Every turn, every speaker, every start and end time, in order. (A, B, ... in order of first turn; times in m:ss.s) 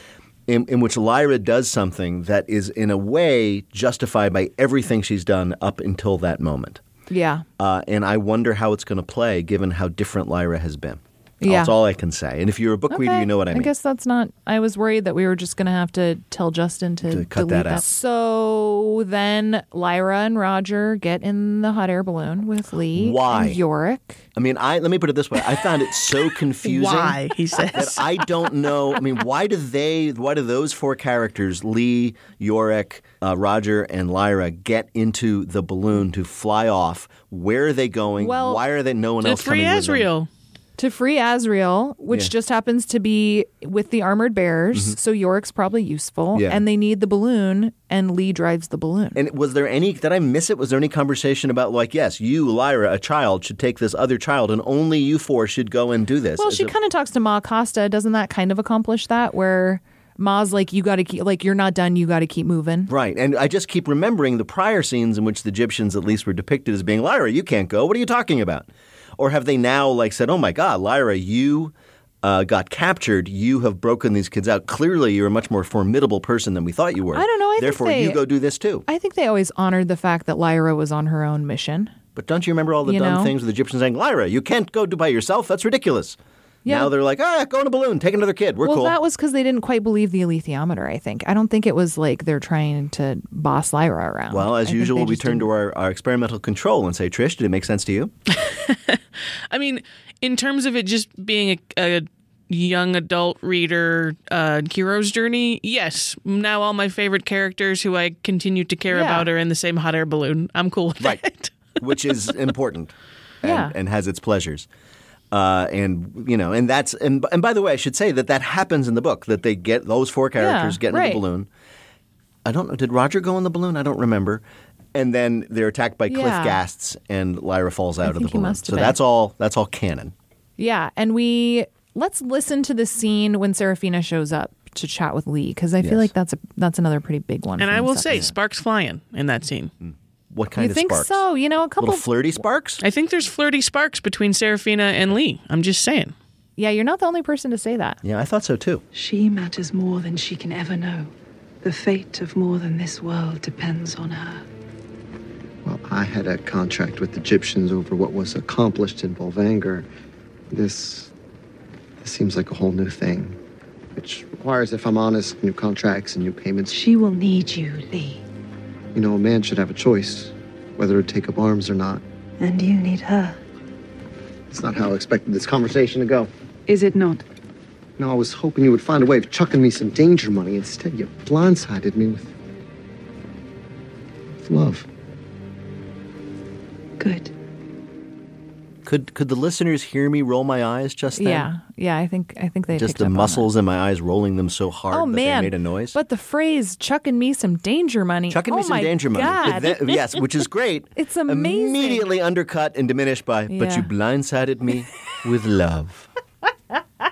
0:00.5-0:06.8 A
0:07.1-0:07.4 B
0:07.6-0:13.7 A
0:11.4-0:11.7 B
0:12.9-0:24.2 B
0:17.0-0:17.8 A
0:22.9-0:23.6 A
0:24.3-0:27.2 A
0:26.6-0:28.1 C
0:27.7-0:40.1 A
0:38.2-0:38.6 B
0:39.2-0:40.3 C
0:40.8-0:49.2 B
0:46.3-0:46.6 A
0:49.1-0:56.7 A
0:56.4-1:02.9 B
1:02.9-1:18.8 A
1:17.1-1:18.2 B
1:18.9-1:21.9 B
1:22.1-1:29.0 A
1:22.8-1:23.3 B
1:26.6-1:26.9 B
1:28.6-1:35.5 B
1:34.3-1:38.1 A
1:38.3-1:51.8 C
1:48.9-1:49.3 B
1:51.8-1:54.7 A
1:53.4-1:53.7 B
1:55.3-2:01.5 A
2:00.4-2:01.2 B
2:02.4-2:04.4 A
2:04.9-2:10.1 A
2:06.1-2:06.6 B
2:08.0-2:09.0 B
2:10.6-2:18.3 B
2:15.8-2:16.1 A
2:17.6-2:19.7 C
2:19.8-2:21.2 A
2:20.6-2:22.0 B
2:21.8-2:22.8 A
2:22.8-2:26.1 C
2:26.6-2:28.0 B
2:28.0-2:28.8 A
2:28.9-2:31.1 D
2:31.6-2:34.4 D
2:35.6-2:39.9 E
2:40.5-2:41.1 E
2:42.0-2:43.4 E
2:44.0-2:46.8 E
2:46.7-2:48.2 D
2:48.9-2:52.0 E
2:52.4-2:53.4 D
2:54.5-2:56.3 E
2:56.7-2:57.2 D
2:58.0-3:02.3 E
3:04.4-3:04.9 E
3:07.0-3:07.3 D
3:08.8-3:11.5 A
3:11.2-3:13.5 B
3:12.7-3:16.0 A
3:14.9-3:20.3 B
3:18.3-3:26.1 A
3:21.0-3:22.1 B
3:23.5-3:23.9 B